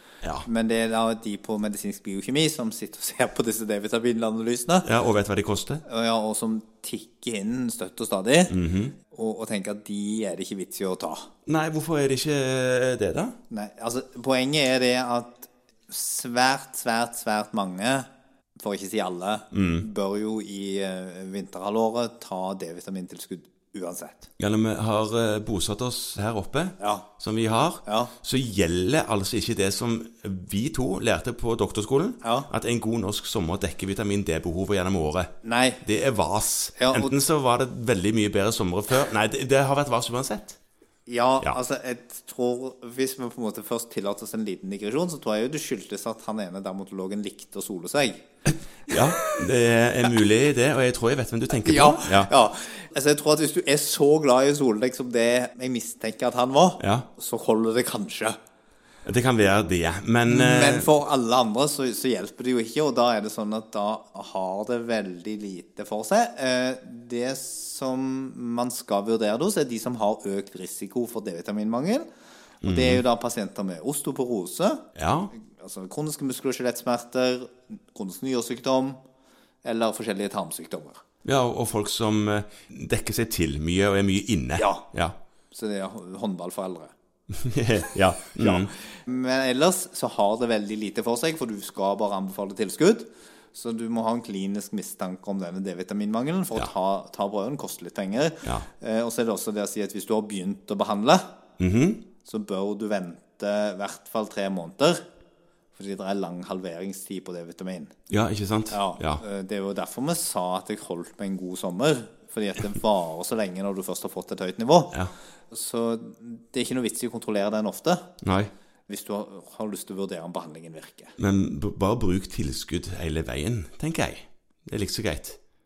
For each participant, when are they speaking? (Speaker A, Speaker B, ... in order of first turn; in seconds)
Speaker A: 0.4-4.9, 5.8-8.5, 9.1-11.3, 13.5-18.1, 18.6-24.3, 26.8-27.1, 27.8-28.1, 32.2-32.5, 35.4-35.8, 36.8-37.1, 41.0-48.2, 51.6-58.4, 60.3-72.0, 72.6-79.0, 79.6-81.0, 84.6-84.9, 85.5-86.9, 88.4-101.2, 102.2-105.0, 105.7-107.9, 108.7-114.9, 115.5-118.1, 118.9-121.1
Speaker B: 4.8-5.8, 8.5-8.9, 11.4-13.4, 19.5-19.8, 24.4-40.6, 48.9-52.3, 56.8-57.1, 59.0-60.9, 72.6-73.0, 75.0-75.3, 81.2-85.1, 87.3-88.7, 101.6-102.0, 108.1-109.2, 118.2-118.5, 121.2-125.4